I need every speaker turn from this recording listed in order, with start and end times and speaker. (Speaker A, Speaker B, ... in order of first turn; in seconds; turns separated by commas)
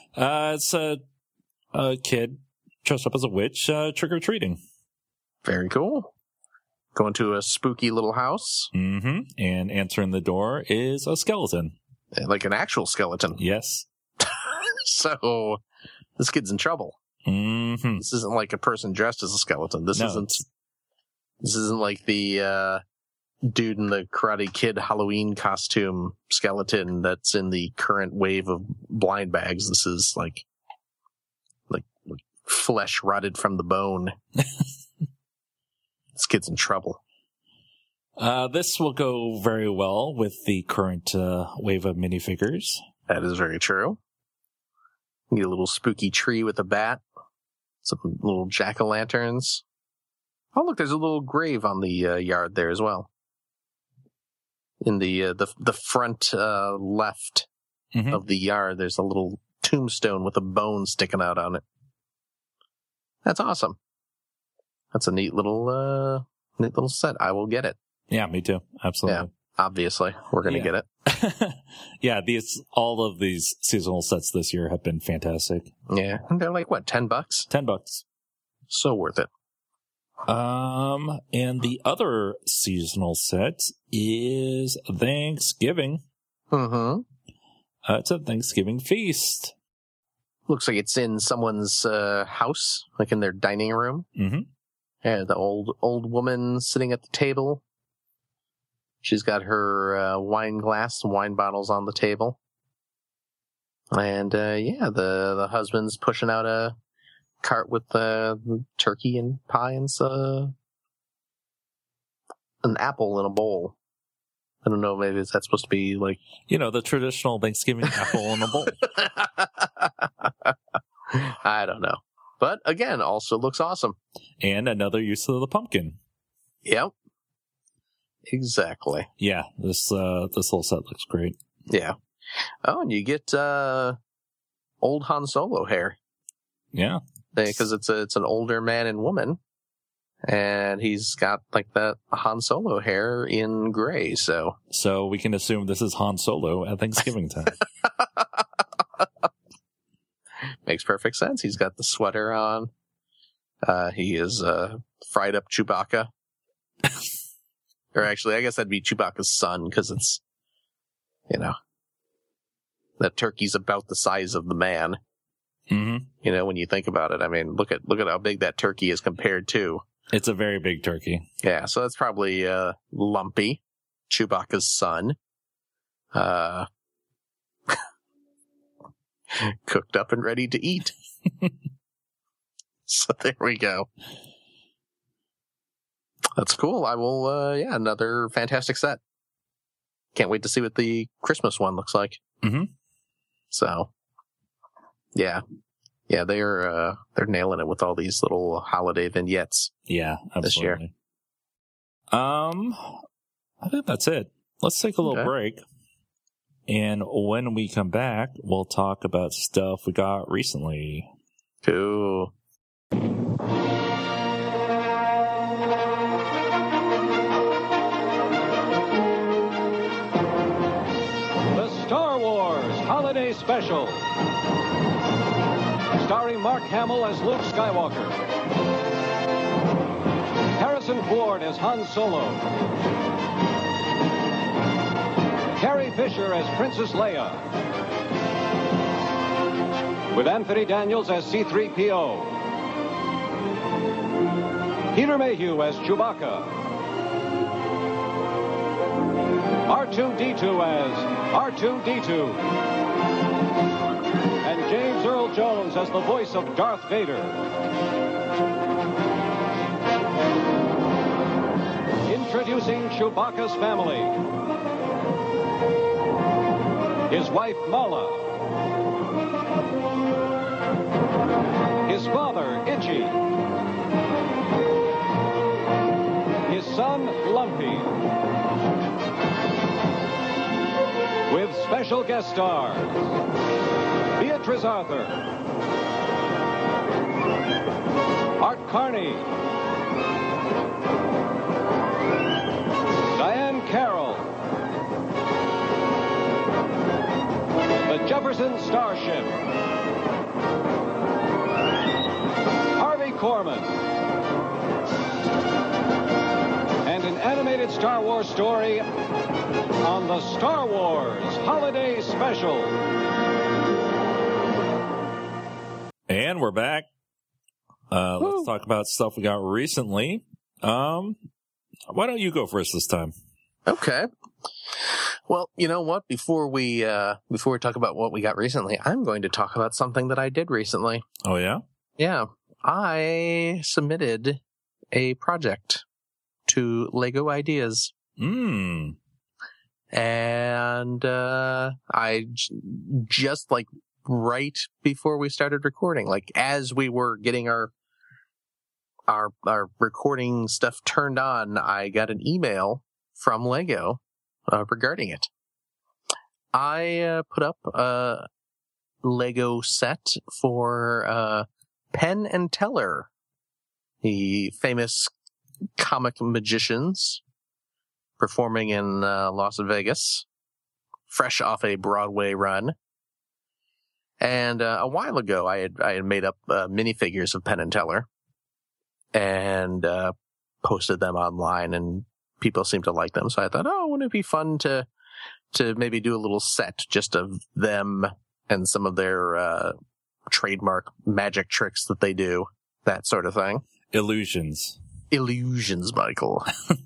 Speaker A: 0.1-1.0, Speaker A: 1.7-4.6, Speaker B: 5.4-6.1, Speaker B: 6.9-8.7, Speaker A: 8.7-11.7, Speaker B: 12.1-13.4, Speaker A: 13.4-13.8, Speaker B: 14.2-15.6, Speaker B: 16.2-17.0, Speaker A: 17.2-18.0, Speaker B: 18.0-20.4, Speaker A: 19.9-20.3, Speaker B: 21.4-22.8, Speaker B: 23.4-30.4, Speaker B: 31.7-34.1, Speaker B: 36.1-37.0, Speaker A: 38.2-42.8, Speaker B: 43.1-44.0, Speaker B: 45.3-47.0, Speaker B: 47.8-49.6, Speaker B: 50.5-53.1, Speaker B: 54.8-57.5, Speaker A: 57.9-58.2, Speaker B: 58.1-61.6, Speaker B: 63.2-63.8, Speaker B: 64.9-67.8, Speaker A: 68.1-69.3, Speaker B: 69.0-70.8, Speaker A: 70.5-75.7, Speaker B: 75.9-77.5, Speaker A: 77.5-78.0, Speaker B: 78.7-79.3, Speaker A: 80.2-86.0, Speaker B: 86.5-87.0, Speaker A: 87.8-89.5, Speaker B: 90.5-94.0, Speaker A: 94.2-94.5, Speaker B: 95.0-97.6, Speaker B: 99.0-102.4, Speaker B: 103.9-106.8, Speaker B: 107.4-110.5, Speaker B: 112.6-113.8, Speaker B: 114.6-116.2, Speaker A: 116.5-118.8, Speaker B: 118.8-120.5, Speaker B: 121.1-124.0, Speaker A: 124.4-126.0, Speaker B: 126.6-126.9, Speaker B: 128.3-129.1, Speaker A: 129.2-131.4, Speaker B: 131.7-131.9, Speaker B: 132.6-134.0, Speaker B: 134.8-136.0, Speaker A: 136.7-137.0, Speaker B: 137.3-139.4, Speaker B: 140.2-144.6, Speaker A: 144.7-147.6, Speaker B: 150.7-152.7, Speaker B: 153.6-156.1, Speaker B: 157.9-160.2, Speaker B: 161.3-161.5, Speaker B: 163.0-165.0, Speaker A: 165.7-166.1, Speaker B: 166.2-169.8, Speaker A: 170.1-171.2, Speaker B: 171.4-175.2, Speaker B: 176.1-176.7, Speaker B: 179.3-180.9, Speaker B: 182.9-183.9, Speaker B: 186.4-189.0, Speaker B: 190.1-192.2, Speaker A: 192.4-192.7, Speaker B: 193.5-193.9, Speaker B: 195.1-195.4, Speaker B: 196.1-199.7, Speaker A: 199.9-200.9, Speaker B: 200.4-200.8, Speaker A: 202.1-203.0, Speaker A: 203.6-205.6, Speaker B: 205.0-205.3, Speaker A: 206.7-211.1, Speaker B: 211.6-212.3, Speaker C: 221.5-224.1, Speaker C: 225.9-228.2, Speaker C: 230.6-232.4, Speaker C: 235.6-237.4, Speaker C: 240.1-242.4, Speaker C: 244.9-246.6, Speaker C: 249.7-252.5, Speaker C: 254.4-257.4, Speaker C: 262.1-264.2, Speaker C: 267.1-268.3, Speaker C: 271.8-273.3, Speaker C: 276.5-278.0, Speaker C: 281.3-283.1, Speaker C: 284.2-285.2, Speaker C: 288.4-289.3, Speaker C: 293.1-294.3, Speaker C: 297.8-299.3, Speaker C: 302.7-303.7, Speaker C: 306.8-308.9, Speaker C: 309.8-312.8, Speaker A: 316.1-316.9, Speaker A: 317.9-321.2, Speaker B: 318.2-318.5, Speaker A: 321.9-323.1, Speaker B: 323.6-324.1, Speaker B: 324.8-331.0, Speaker A: 331.2-331.6, Speaker B: 332.0-334.4, Speaker B: 334.9-335.8, Speaker B: 336.5-337.9, Speaker A: 338.2-339.0, Speaker B: 339.9-347.7, Speaker B: 349.1-355.3, Speaker B: 356.5-358.2, Speaker B: 359.0-363.1, Speaker B: 364.0-365.1, Speaker B: 365.8-367.2, Speaker B: 368.2-370.2, Speaker B: 371.1-372.7, Speaker B: 374.2-378.1, Speaker B: 379.1-384.9, Speaker B: 385.5-389.7, Speaker B: 390.3-393.6, Speaker A: 393.9-394.8, Speaker B: 395.1-396.5